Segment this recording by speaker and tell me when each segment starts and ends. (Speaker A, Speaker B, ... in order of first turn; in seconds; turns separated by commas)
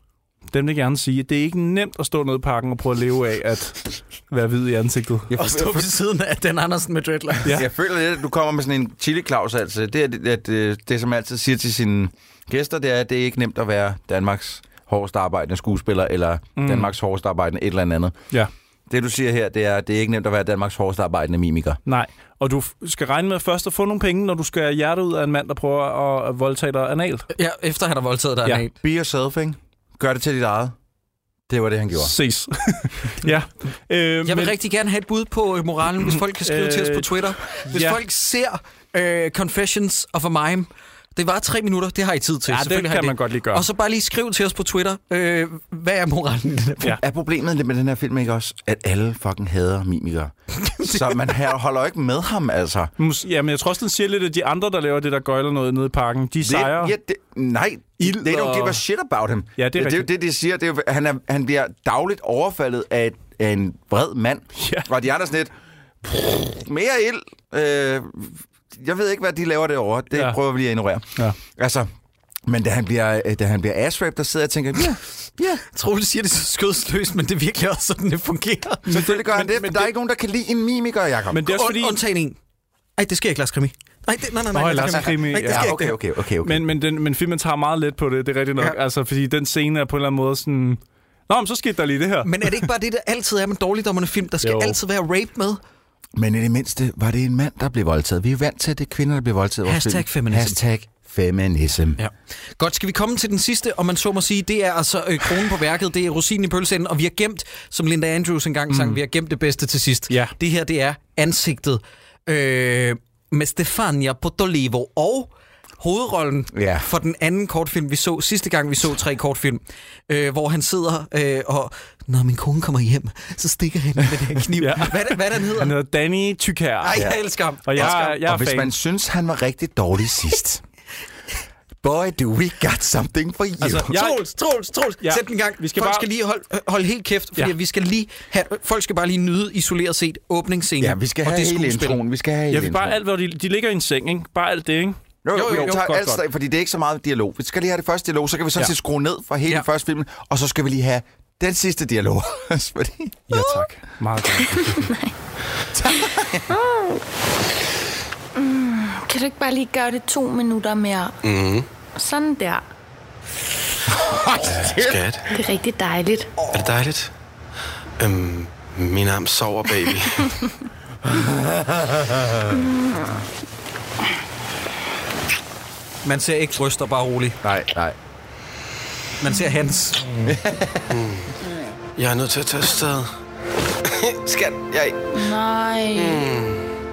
Speaker A: 0.5-5.3, Speaker B: 5.3-5.8, Speaker C: 5.3-7.5, Speaker B: 7.5-18.1, Speaker A: 16.6-16.9, Speaker B: 18.9-21.8, Speaker A: 21.9-27.3, Speaker C: 27.3-28.7, Speaker B: 28.8-30.7, Speaker B: 31.5-32.1, Speaker A: 31.9-34.5, Speaker C: 34.2-47.0, Speaker A: 36.0-38.0, Speaker A: 42.5-43.6, Speaker B: 47.0-52.9, Speaker C: 50.6-51.3, Speaker A: 53.0-56.9, Speaker B: 56.4-65.5, Speaker A: 58.0-58.8, Speaker A: 59.6-60.1, Speaker A: 64.6-64.9, Speaker B: 66.0-71.9, Speaker A: 70.1-70.4, Speaker B: 72.5-75.6, Speaker C: 75.6-78.9, Speaker A: 78.9-79.9, Speaker B: 78.9-81.5, Speaker A: 81.3-82.0, Speaker C: 81.5-82.4, Speaker C: 83.0-85.9, Speaker A: 84.5-92.7, Speaker B: 85.4-86.6, Speaker C: 92.2-95.6, Speaker A: 94.4-94.8, Speaker B: 96.2-102.0, Speaker C: 99.6-100.6, Speaker C: 102.0-125.7, Speaker A: 108.7-109.0, Speaker A: 110.1-110.3, Speaker B: 116.5-116.8, Speaker A: 124.6-127.1, Speaker C: 126.8-128.2, Speaker A: 127.6-128.7, Speaker B: 127.8-130.6, Speaker B: 131.8-133.9, Speaker A: 133.6-134.2, Speaker C: 133.9-142.0, Speaker A: 135.0-136.1, Speaker B: 140.8-143.0, Speaker A: 142.5-146.1, Speaker B: 145.2-153.2, Speaker C: 145.3-146.2, Speaker A: 153.3-154.9, Speaker D: 154.8-155.1, Speaker B: 155.7-156.4, Speaker D: 156.5-157.0, Speaker D: 158.3-161.1, Speaker E: 161.2-161.7, Speaker D: 161.9-162.6, Speaker B: 164.0-164.9, Speaker E: 164.6-165.2, Speaker D: 165.3-166.3, Speaker E: 166.5-167.1, Speaker E: 168.0-170.3, Speaker B: 171.1-172.4, Speaker C: 176.0-177.4, Speaker B: 177.4-177.9, Speaker C: 179.2-180.1, Speaker B: 180.2-180.8, Speaker E: 180.9-181.3, Speaker E: 182.0-183.1, Speaker B: 184.2-185.0, Speaker D: 185.1-186.2, Speaker E: 185.9-186.6